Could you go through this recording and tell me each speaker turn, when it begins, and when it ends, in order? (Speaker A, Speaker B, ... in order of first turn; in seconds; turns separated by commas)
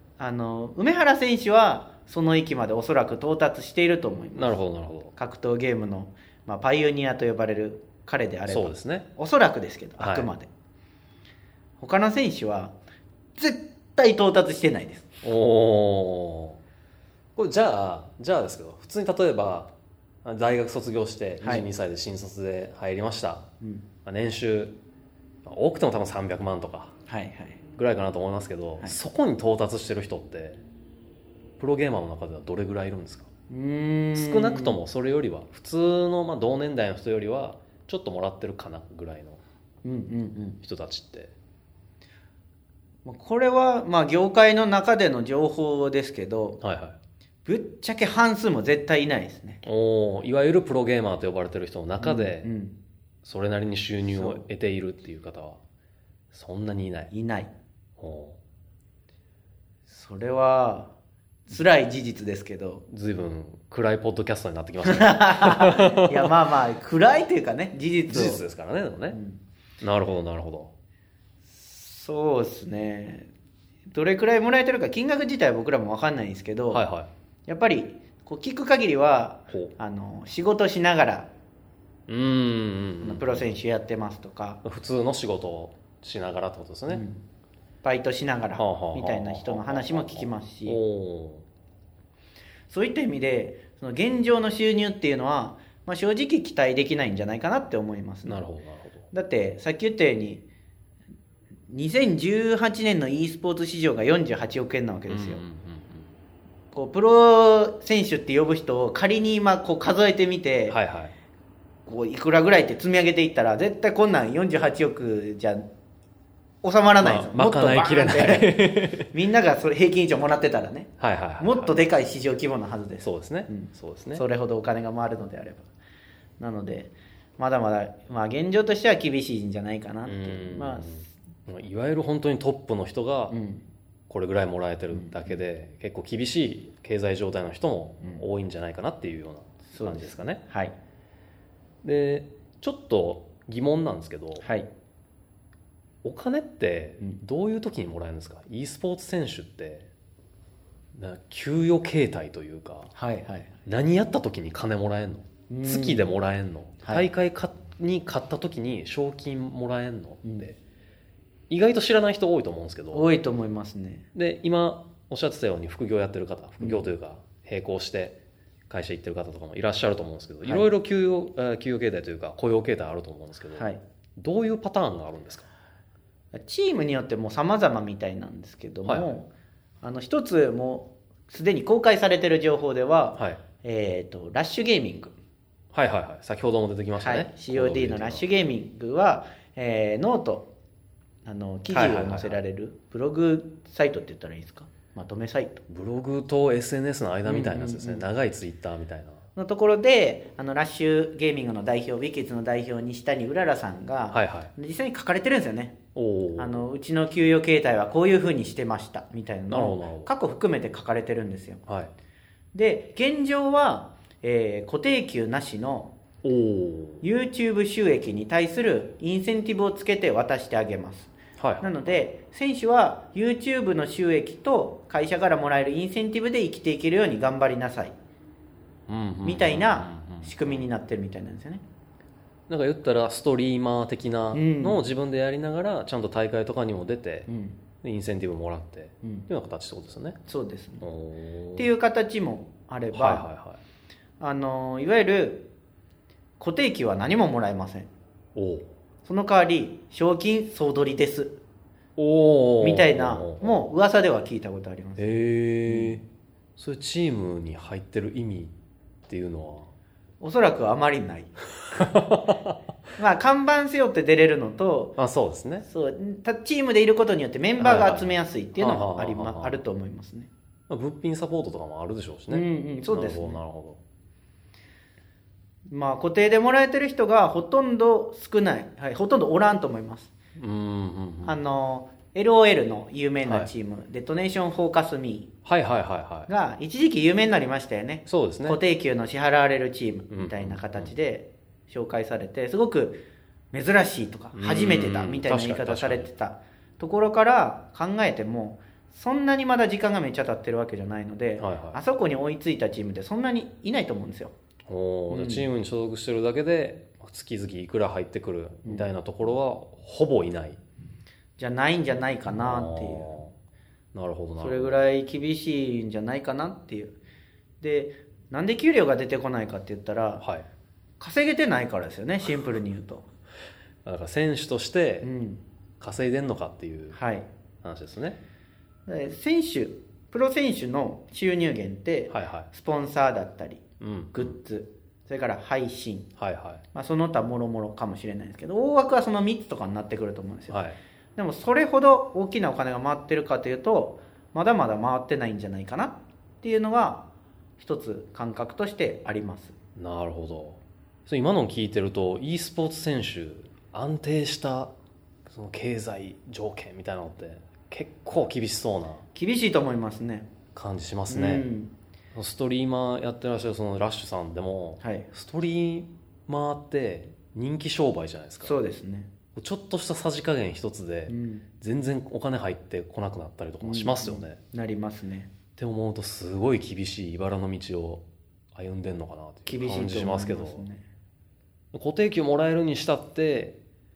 Speaker A: 0.2-4.6, Speaker B: 4.3-5.1, Speaker A: 5.2-10.5, Speaker B: 8.5-9.1, Speaker B: 10.0-10.3, Speaker A: 11.8-12.8, Speaker A: 13.3-15.1, Speaker B: 15.2-16.6, Speaker B: 17.4-19.7, Speaker B: 20.2-23.5, Speaker A: 21.4-21.7, Speaker B: 24.0-24.8, Speaker B: 25.4-26.9, Speaker A: 27.1-27.6, Speaker B: 27.8-30.6, Speaker B: 31.6-33.3, Speaker A: 33.5-34.8, Speaker B: 34.1-39.4, Speaker A: 39.8-40.6, Speaker B: 40.6-41.3, Speaker A: 43.0-46.6, Speaker B: 46.6-47.0, Speaker A: 47.4-49.6, Speaker B: 49.6-52.5, Speaker A: 52.0-52.8, Speaker B: 53.2-55.6, Speaker A: 54.1-54.4, Speaker B: 56.3-57.1, Speaker A: 57.1-57.5, Speaker B: 58.0-58.4, Speaker A: 59.9-60.9, Speaker A: 61.5-62.8, Speaker B: 62.9-66.3, Speaker A: 64.8-68.4, Speaker B: 68.1-69.2, Speaker A: 69.1-69.4, Speaker B: 69.8-70.7, Speaker A: 71.4-73.3, Speaker A: 73.9-76.8, Speaker B: 76.7-77.1, Speaker A: 77.5-81.3, Speaker B: 82.1-83.5, Speaker A: 83.0-84.6, Speaker B: 84.6-87.0, Speaker A: 86.9-87.2, Speaker A: 87.8-90.8, Speaker B: 88.6-91.4, Speaker A: 92.7-98.4, Speaker B: 98.2-99.0, Speaker A: 99.1-100.5, Speaker A: 101.7-105.4, Speaker B: 105.1-106.1, Speaker A: 106.7-110.8, Speaker B: 110.7-111.1, Speaker A: 111.8-115.7, Speaker A: 116.6-125.7, Speaker B: 117.0-119.1, Speaker B: 121.0-121.8, Speaker B: 123.0-124.2, Speaker A: 126.4-131.1, Speaker B: 130.1-133.4, Speaker A: 133.3-133.6, Speaker B: 134.1-140.4, Speaker A: 134.9-135.3, Speaker A: 139.7-140.7, Speaker B: 141.8-144.4, Speaker A: 144.4-144.7, Speaker B: 146.0-149.9, Speaker B: 150.9-152.9, Speaker A: 152.9-153.5, Speaker B: 153.7-160.6, Speaker A: 155.5-156.1, Speaker B: 161.5-163.1, Speaker A: 162.9-164.1, Speaker B: 164.1-168.2, Speaker A: 166.6-166.8, Speaker B: 168.7-175.5, Speaker A: 176.3-179.3, Speaker B: 178.8-179.1, Speaker A: 179.8-185.1, Speaker B: 183.2-183.4, Speaker B: 185.7-188.3, Speaker A: 187.0-190.5, Speaker A: 191.2-195.6, Speaker B: 191.7-192.4, Speaker B: 195.7-199.2, Speaker A: 197.2-198.0, Speaker A: 199.3-205.8, Speaker B: 204.1-204.5, Speaker B: 205.9-206.6, Speaker A: 206.4-211.6, Speaker B: 209.5-210.1, Speaker B: 211.7-211.9, Speaker A: 212.5-215.9, Speaker B: 216.2-217.0, Speaker A: 217.0-227.9, Speaker B: 221.4-222.0, Speaker B: 228.9-230.6, Speaker A: 229.2-231.6, Speaker B: 232.5-237.3, Speaker A: 234.3-234.8, Speaker A: 237.3-237.6, Speaker B: 237.8-240.2, Speaker A: 240.3-240.8, Speaker B: 240.8-241.7, Speaker A: 241.6-243.2, Speaker B: 242.9-243.6, Speaker A: 244.2-245.5, Speaker A: 246.4-247.9, Speaker B: 248.3-248.7, Speaker A: 249.0-251.4, Speaker B: 252.0-253.6, Speaker A: 252.6-255.1, Speaker B: 255.0-256.0, Speaker A: 255.7-256.0, Speaker B: 256.6-258.5, Speaker B: 259.1-259.7, Speaker A: 260.2-261.3, Speaker B: 261.6-262.6, Speaker A: 263.0-264.9, Speaker B: 265.0-265.6, Speaker A: 265.6-270.3, Speaker B: 267.6-269.6, Speaker B: 270.7-273.8, Speaker A: 272.3-273.4, Speaker A: 275.7-280.1, Speaker B: 280.4-281.4, Speaker A: 281.2-285.3, Speaker B: 285.4-286.3, Speaker A: 286.3-304.3, Speaker B: 288.1-288.6, Speaker B: 290.1-290.9, Speaker B: 294.3-296.1, Speaker B: 301.4-301.8, Speaker B: 304.7-310.6, Speaker A: 305.1-305.5, Speaker A: 311.4-313.1, Speaker B: 312.3-313.3, Speaker B: 313.9-314.8, Speaker A: 314.4-316.9, Speaker A: 317.6-320.2, Speaker B: 320.2-320.4, Speaker A: 321.0-323.1, Speaker B: 323.8-325.1, Speaker A: 325.0-325.4, Speaker B: 325.8-327.0, Speaker A: 326.9-327.3, Speaker B: 327.6-328.2, Speaker A: 328.9-333.6, Speaker B: 332.1-332.5, Speaker B: 333.8-334.3, Speaker A: 334.1-336.1, Speaker B: 336.2-336.6, Speaker A: 336.7-340.6, Speaker B: 340.5-340.8, Speaker A: 341.1-347.1, Speaker A: 347.6-349.6, Speaker B: 349.8-354.7, Speaker B: 355.3-359.1, Speaker A: 359.1-360.3, Speaker B: 360.5-361.5, Speaker A: 361.1-361.7, Speaker B: 362.1-368.6, Speaker A: 364.8-365.1, Speaker A: 368.4-369.1, Speaker B: 369.3-374.4, Speaker A: 371.1-371.4, Speaker A: 373.6-375.3, Speaker B: 375.6-378.0, Speaker B: 378.5-380.6, Speaker A: 379.5-380.8, Speaker B: 381.7-383.6